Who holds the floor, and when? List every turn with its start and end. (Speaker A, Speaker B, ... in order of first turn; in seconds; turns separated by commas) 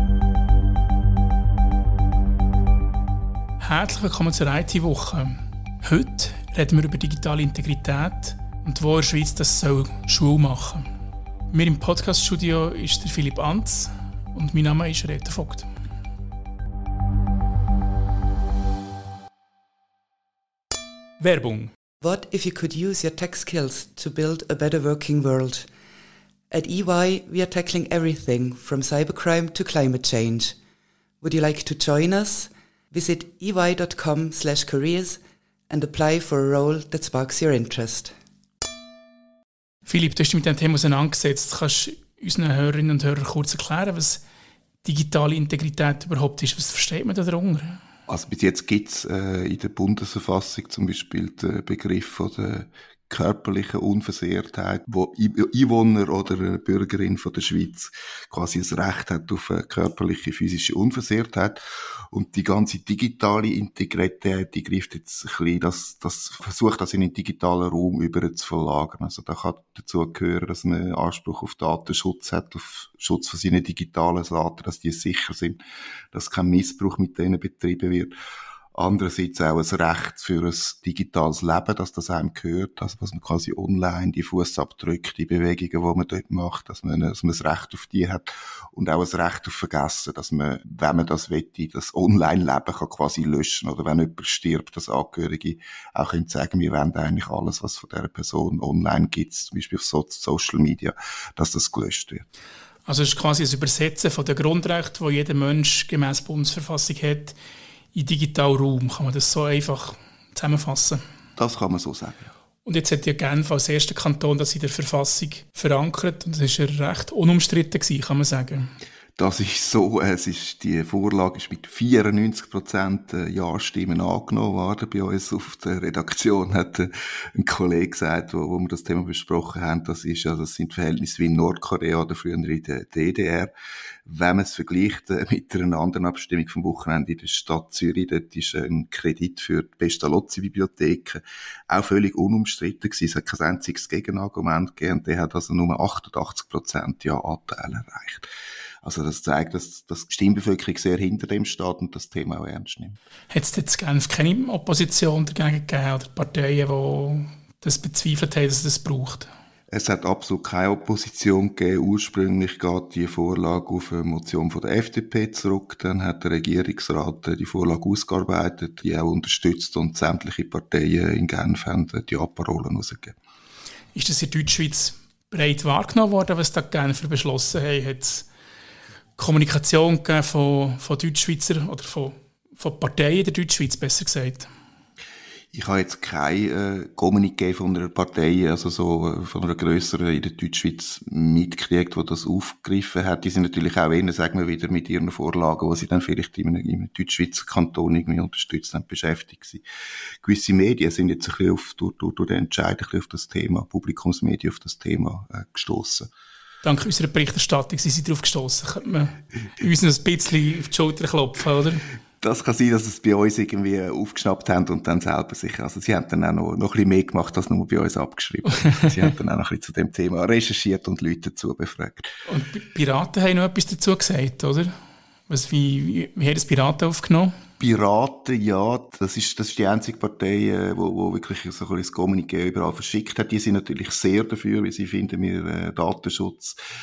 Speaker A: 3.6-10.8, Speaker A: 11.5-15.7, Speaker A: 21.2-21.7, Speaker B: 22.0-25.7, Speaker B: 26.5-30.6, Speaker B: 31.2-38.1, Speaker A: 39.9-44.2, Speaker A: 44.8-47.8, Speaker C: 48.1-75.6, Speaker C: 76.1-78.1, Speaker C: 78.7-102.2, Speaker A: 102.9-107.3, Speaker A: 107.9-111.0, Speaker C: 111.4-112.3, Speaker A: 112.6-118.7, Speaker C: 119.2-133.5, Speaker C: 134.1-148.3, Speaker C: 148.8-153.0, Speaker A: 153.3-159.3, Speaker C: 159.7-173.1, Speaker A: 173.9-178.3, Speaker A: 179.2-184.5, Speaker C: 185.5-199.6, Speaker C: 200.2-206.1, Speaker A: 206.6-211.8, Speaker C: 212.2-222.1, Speaker A: 222.3-224.7, Speaker A: 225.3-227.3, Speaker C: 227.6-236.6